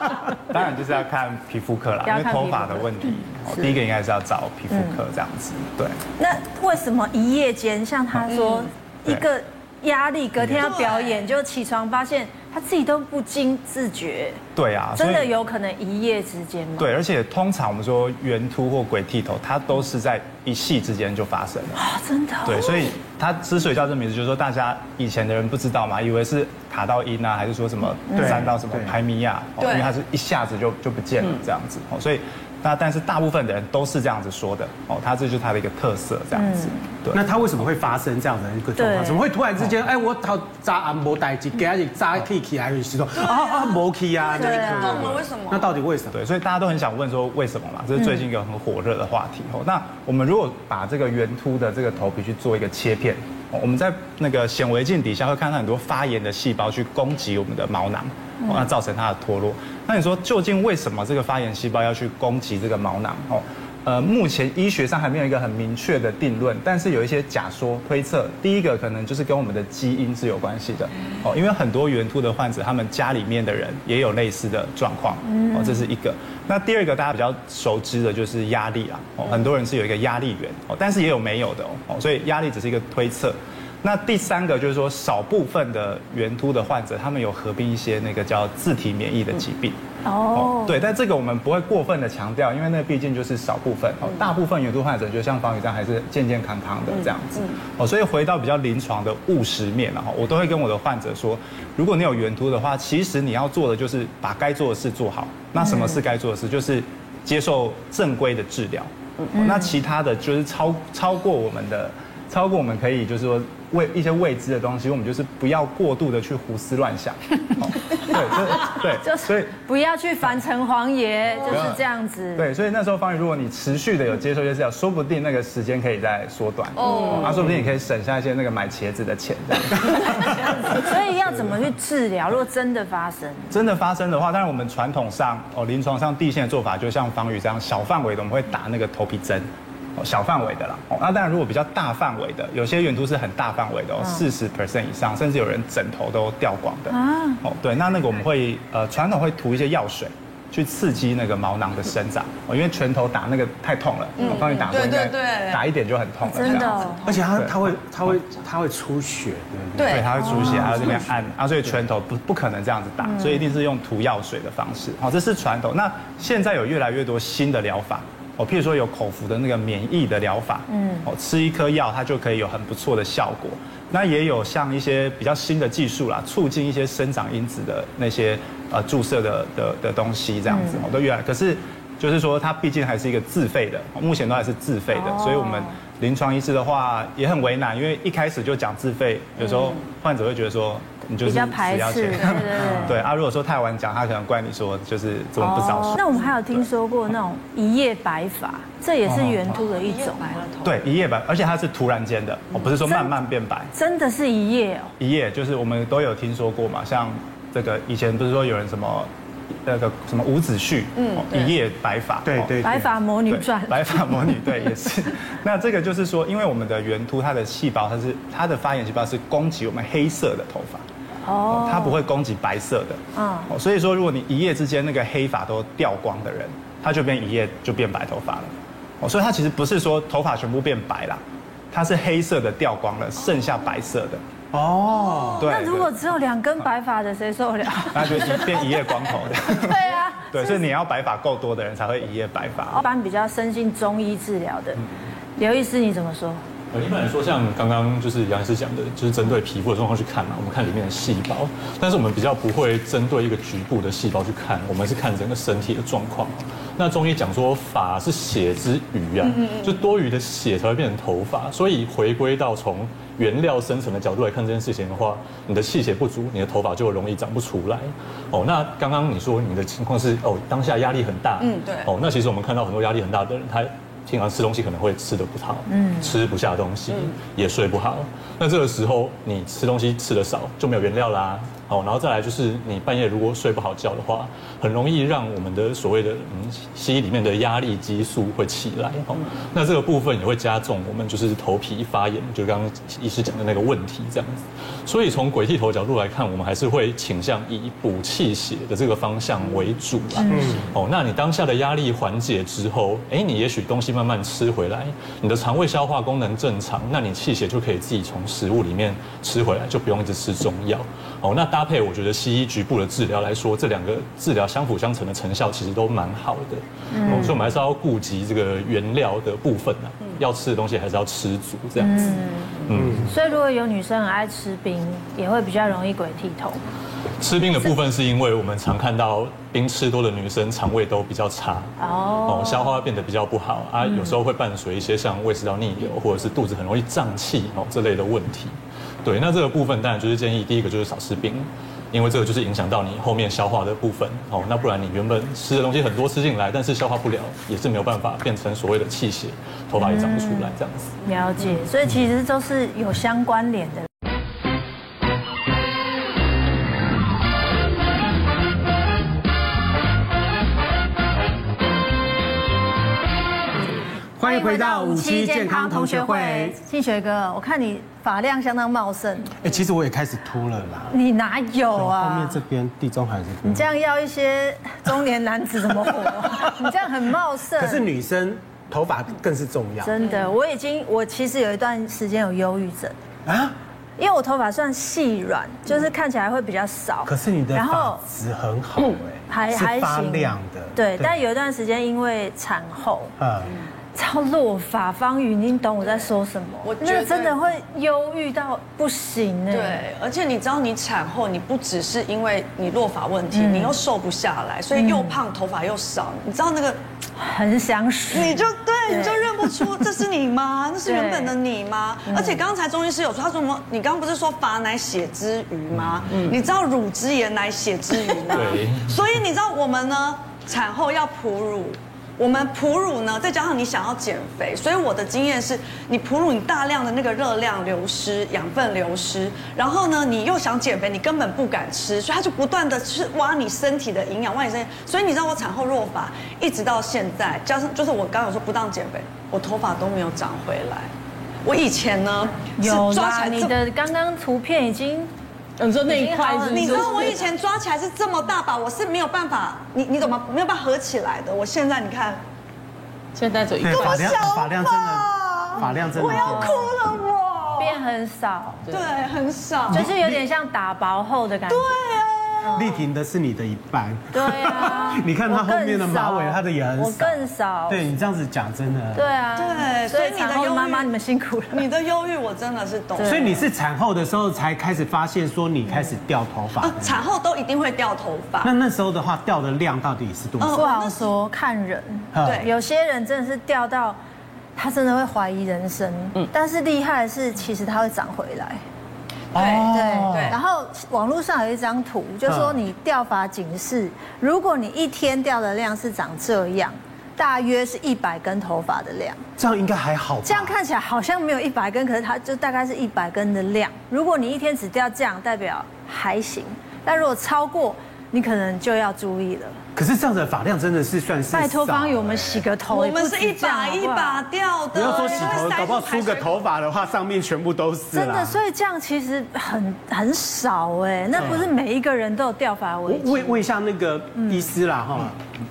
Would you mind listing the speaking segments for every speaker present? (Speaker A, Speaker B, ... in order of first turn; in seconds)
Speaker A: 0.4-6.0, 14.5-15.3, 16.8-21.8, 22.4-37.3, 46.1-89.8, 90.3-119.5, 121.4-121.8, 122.3-131.5, 133.5-158.2, 159.9-196.6, 199.1-199.6, 200.6-203.7, 205.0-209.1, 209.6-220.8, 221.5-234.2, 235.4-236.0, 237.9-242.8
Speaker B: 2.0-3.7, 6.2-14.4, 14.9-16.9, 21.8-22.9, 28.1-28.4, 36.3-36.8, 38.8-39.2, 44.4-45.1, 75.3-75.8, 90.0-90.8, 105.6-105.9, 109.3-109.7, 118.6-122.5, 130.6-133.5, 146.9-147.4, 156.2-157.0, 160.2-160.7, 163.1-163.4, 170.7-171.1, 180.5-180.8, 184.9-185.7, 191.2-193.0, 195.4-200.3, 202.8-203.1, 203.7-204.9, 212.6-214.4, 221.2-222.0, 223.1-223.5, 235.4-238.9, 239.4-240.6, 242.7-244.8, 245.4-246.4, 275.7-276.1, 300.2-300.6, 316.9-317.4, 321.8-326.6, 331.8-332.7, 349.8-350.5, 351.0-353.9, 364.2-369.3, 370.9-372.4, 373.4-377.8, 379.8-382.9, 384.0-388.0, 389.3-393.1, 393.9-399.8, 403.3-403.8, 404.7-405.2, 407.2-409.6, 410.9-411.3, 412.1-412.4, 442.6-445.1, 445.9-447.2, 456.1-456.7, 457.6-458.6, 459.7-462.8, 464.1-467.9, 468.9-471.6, 473.0-473.3, 480.5-484.0, 484.6-488.6, 489.7-499.2, 500.2-509.6, 511.3-514.2, 514.8-515.4, 517.9-523.4, 524.1-524.5
Speaker C: 10.6-11.2, 29.6-29.9, 43.2-45.7, 126.8-127.5, 154.2-155.6, 156.4-157.2, 159.8-161.0, 199.5-200.8, 210.9-211.6, 271.4-271.9, 396.6-397.5, 399.5-406.8, 408.1-440.9, 441.4-443.6, 446.5-452.2, 453.7-457.8, 458.7-459.9, 461.5-462.6, 469.4-470.9, 471.5-473.4, 476.6-478.5, 480.4-481.1, 482.2-482.5, 489.3-490.4, 512.7-516.4
Speaker D: 28.1-28.9, 37.1-46.1, 157.0-161.0, 192.6-192.9, 212.2-212.8, 234.5-235.5, 300.3-300.7, 322.7-323.1, 364.2-366.6, 369.4-370.9, 371.7-373.7, 377.5-379.9, 383.2-383.5, 387.1-391.1, 393.2-393.5, 453.6-456.8, 459.7-460.2, 462.5-469.1, 473.0-477.0, 478.4-480.6, 482.1-482.4, 489.3-490.4, 492.2-492.6, 499.4-500.5, 509.8-512.5, 514.7-518.4, 521.1-521.5, 522.9-525.2
Speaker E: 246.7-322.1, 322.6-323.1, 327.2-331.7, 332.2-350.9, 418.3-419.0
Speaker F: 416.1-416.4, 445.6-447.3, 453.1-454.2